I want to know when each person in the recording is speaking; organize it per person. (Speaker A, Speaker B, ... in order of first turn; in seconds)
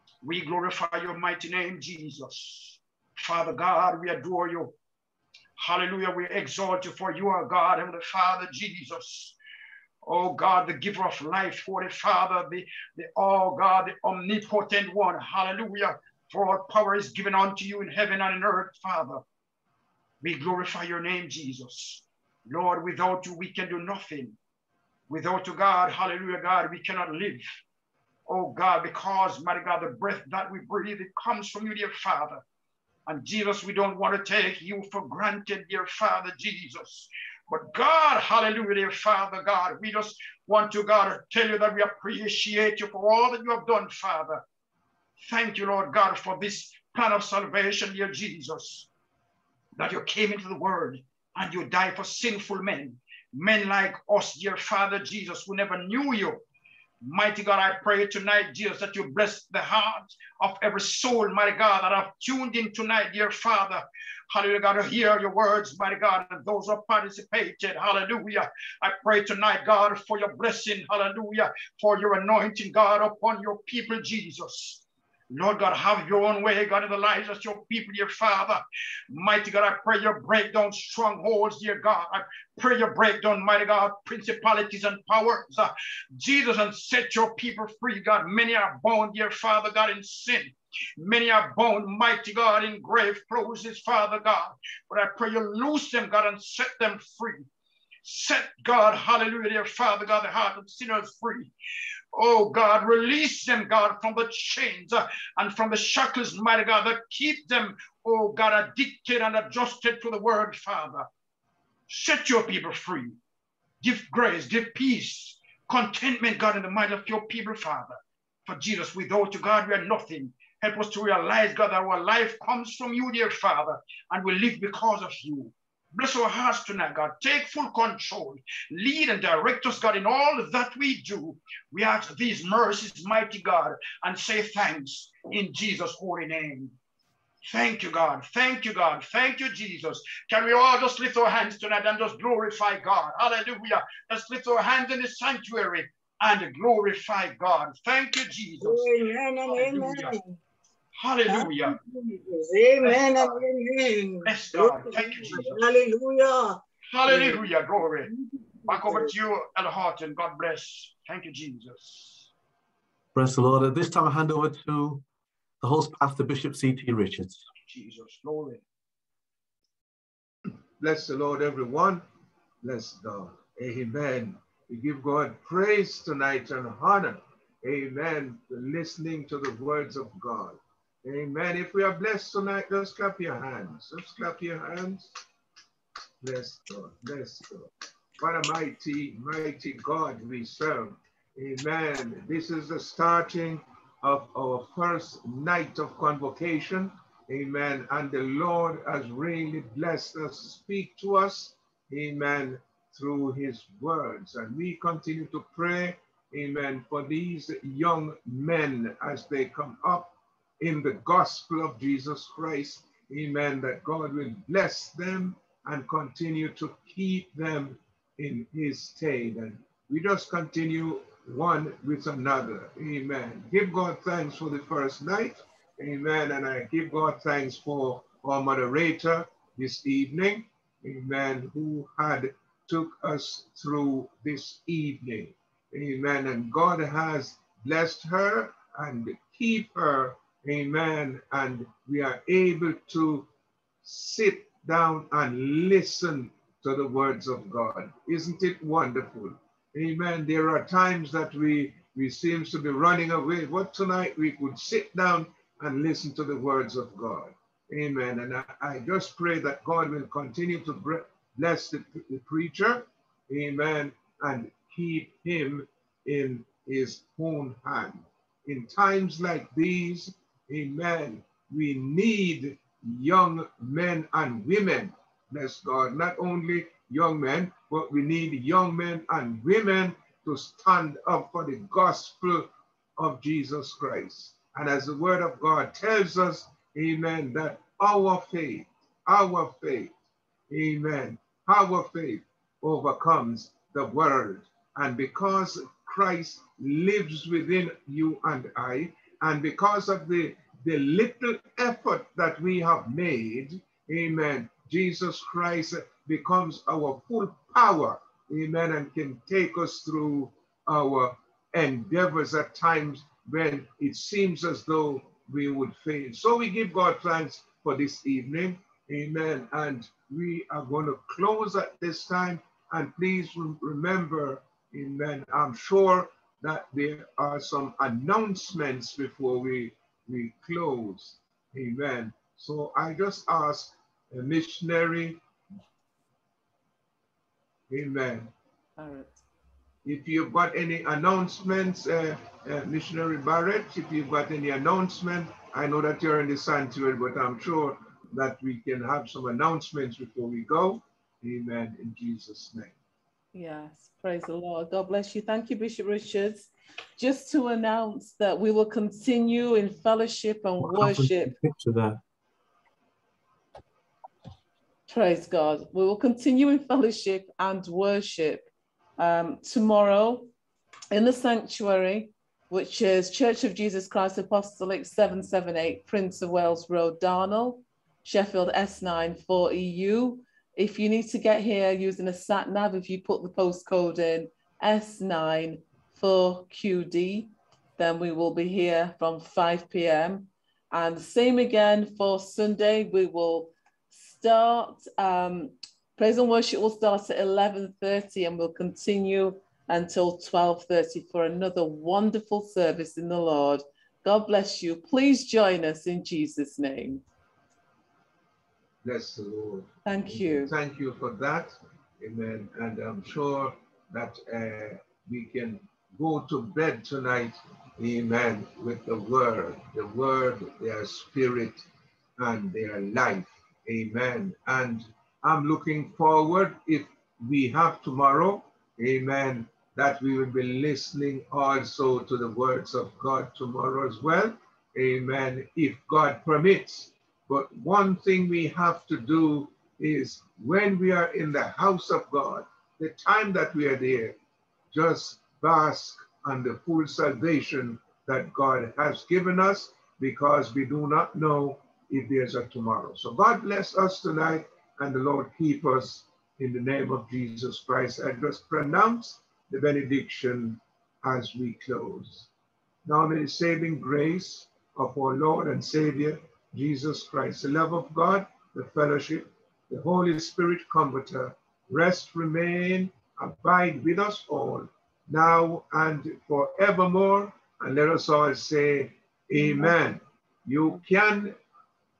Speaker A: 0.2-4.8, 5.6-9.4, 10.0-19.2, 20.2-24.4, 25.1-27.4, 28.3-32.4, 33.1-44.4, 45.2-48.9, 49.8-56.4, 57.0-97.4, 98.0-101.5, 102.1-111.0, 111.9-113.2, 113.8-136.7, 137.4-148.9, 149.4-150.1, 150.9-151.8, 152.8-153.4, 154.2-155.6, 156.9-158.1, 158.7-162.3, 167.7-168.6
Speaker B: 148.6-150.3, 151.3-157.4, 158.0-159.1
Speaker C: 163.1-165.0, 165.6-167.4, 360.6-362.0
Speaker D: 170.8-172.0, 172.6-185.1, 186.2-243.3, 243.8-289.9, 290.5-335.2, 337.7-338.3, 339.8-352.8, 408.8-421.6, 422.2-444.2, 444.7-462.3, 462.8-481.3
Speaker E: 338.8-339.2, 353.3-361.4, 364.9-370.3, 370.9-407.0, 409.9-410.5